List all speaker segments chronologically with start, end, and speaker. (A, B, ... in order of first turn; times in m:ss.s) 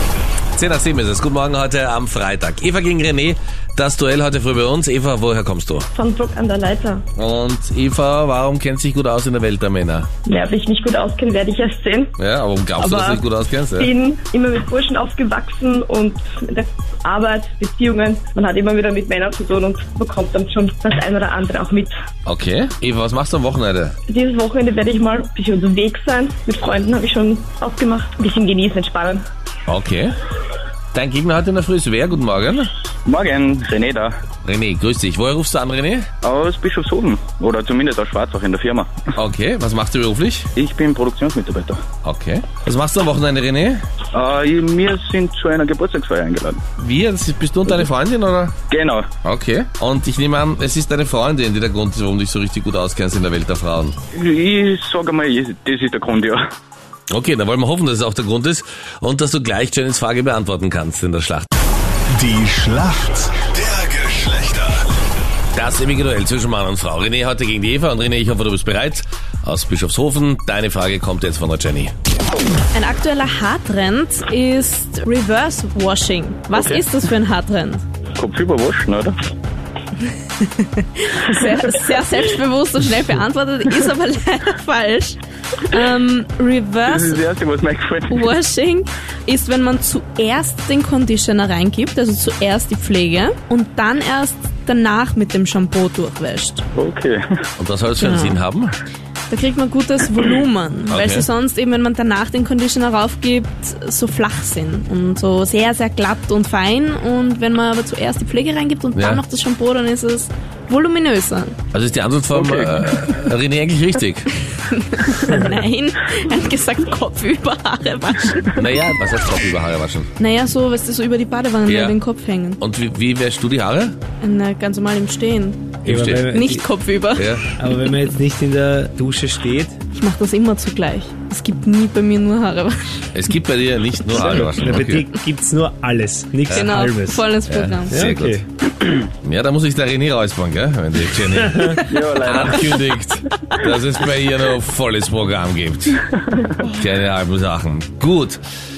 0:00.5-0:05.9 A
0:05.9-0:07.0 B
0:07.1-0:10.1 A
0:10.2-0:12.2 B
0:12.2-0:13.9 A
0:12.8-0:13.2 B
0:13.7-0:21.9 B
0:22.2-0:23.9 A
0:24.1-0:29.2 B
0:29.7-0:30.2 A
0:30.9-0:32.7 A
0:33.0-0:34.1 C
0:34.4-0:36.1 A
0:36.2-0:38.9 C
0:39.2-0:40.5 A
0:40.5-0:41.8 C
0:42.0-0:43.8 A
0:44.1-0:46.6 C
0:46.8-0:48.5 A
0:48.7-0:49.1 C
0:49.2-0:54.0 A
0:54.1-0:56.4 C
0:57.1-1:01.5 A
1:02.1-1:04.7 D
1:03.4-1:03.7 A
1:05.5-1:11.9 A
1:12.7-1:17.8 E
1:16.5-1:16.8 C
1:18.2-1:19.1 C
1:20.4-1:27.2 E
1:26.8-1:28.2 C
1:28.1-1:36.6 E
1:36.7-1:37.4 C
1:37.6-1:38.7 A
1:38.0-1:38.4 E
1:39.3-1:51.6 E
1:40.9-1:41.2 A
1:49.0-1:49.2 A
1:51.7-1:54.3 A
1:52.3-1:52.7 C
1:54.6-1:58.6 E
1:58.5-2:00.1 A
2:00.2-2:02.6 E
2:01.6-2:02.0 A
2:02.6-2:04.0 A
2:04.2-2:05.8 E
2:05.8-2:06.3 A
2:05.8-2:06.7 F
2:06.3-2:07.7 E
2:07.2-2:07.5 A
2:07.6-2:09.8 F
2:09.9-2:12.9 E
2:13.1-2:15.0 A
2:14.1-2:17.3 F
2:16.5-2:18.0 E
2:17.5-2:18.4 A
2:17.9-2:18.4 F
2:19.2-2:26.0 A
2:21.5-2:21.8 F
2:21.9-2:22.9 C
2:26.6-2:28.4 A